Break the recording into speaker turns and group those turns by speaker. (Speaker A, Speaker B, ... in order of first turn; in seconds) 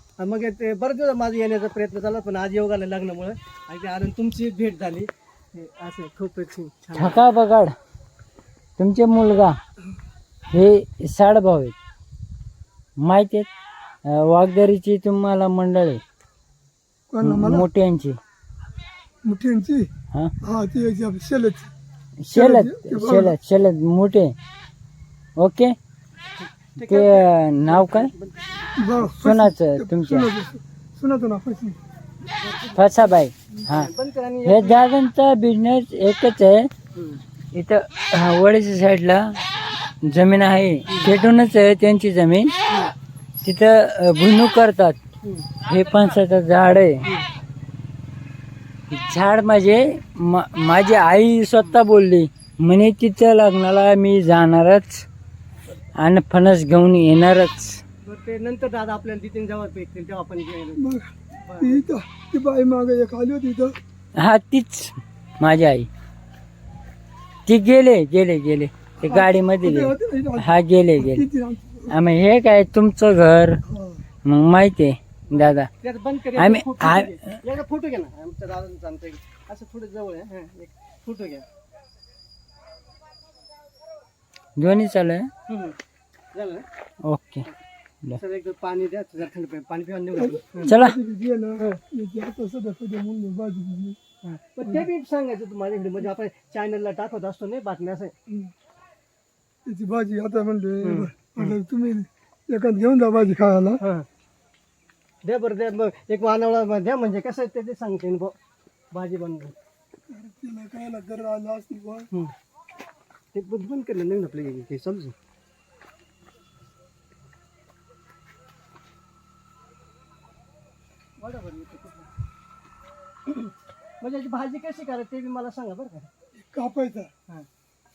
Speaker A: 0.2-7.2, 26.4-28.6, 32.4-34.9, 37.0-37.2, 40.9-41.1, 45.2-45.5, 58.0-60.8, 61.4-61.8, 75.3-81.5, 85.5-85.8, 86.3-86.7, 88.2-90.7, 94.2-98.1, 100.8-101.6, 103.8-104.1, 105.2-108.4, 108.9-109.5, 113.3-115.2, 121.2-122.1, 123.3-126.1
Speaker B: 7.0-7.7, 8.8-9.6, 10.5-11.8, 13.0-13.5, 14.1-16.0, 17.2-18.2, 22.2-24.3, 25.4-25.7, 26.9-28.1, 29.0-30.3, 32.8-33.9, 34.5-36.7, 37.5-39.2, 40.0-42.5, 43.4-45.0, 45.6-47.0, 48.9-55.0, 56.0-57.8, 64.2-65.9, 67.5-71.3, 71.9-73.6, 74.3-75.7, 76.4-77.1, 84.6-85.3, 87.0-87.5, 90.7-91.0
Speaker C: 17.1-17.7, 19.2-19.9, 20.4-21.7, 22.3-23.4, 28.8-31.8, 60.8-63.8, 69.0-72.0, 73.7-74.0, 90.2-94.0, 98.3-98.5, 99.7-103.8, 110.1-112.1, 126.3-127.1